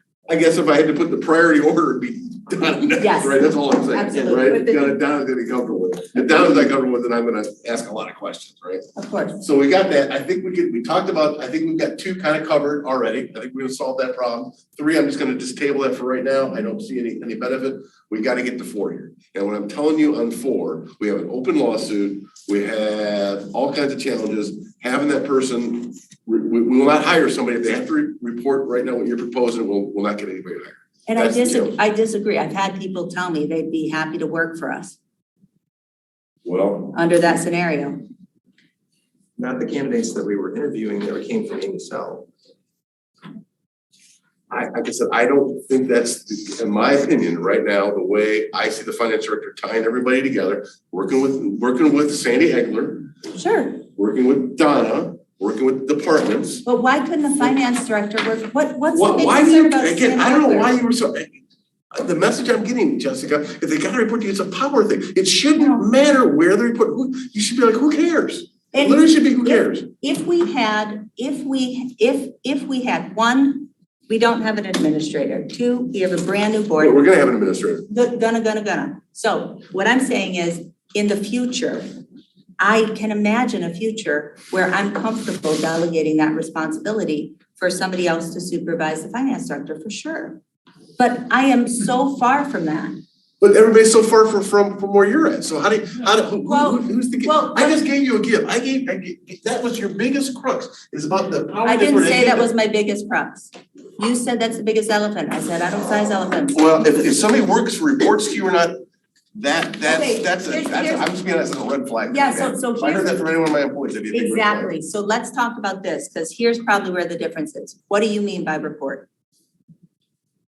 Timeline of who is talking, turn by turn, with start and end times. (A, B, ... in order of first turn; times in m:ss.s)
0:00.3-0:08.8 A
0:03.0-0:04.9 B
0:09.0-0:09.4 B
0:09.4-0:31.7 A
0:31.1-0:35.0 B
0:36.4-0:36.9 A
0:36.9-0:38.0 B
0:39.4-0:42.3 C
0:44.5-0:53.1 A
0:53.3-0:53.8 B
0:54.0-0:56.6 A
0:56.6-1:00.7 B
0:58.9-1:01.4 A
1:01.9-1:09.9 A
1:05.6-1:05.8 B
1:08.7-1:17.0 B
1:16.8-1:17.8 A
1:17.9-1:21.8 B
1:22.6-1:30.4 B
1:31.0-1:33.0 B
1:33.4-1:42.5 A
1:36.4-1:37.8 B
1:41.6-1:46.6 B
1:46.5-1:48.8 A
1:49.3-1:54.7 A
1:49.9-1:51.1 B
1:52.1-1:53.1 B
1:54.1-1:59.1 B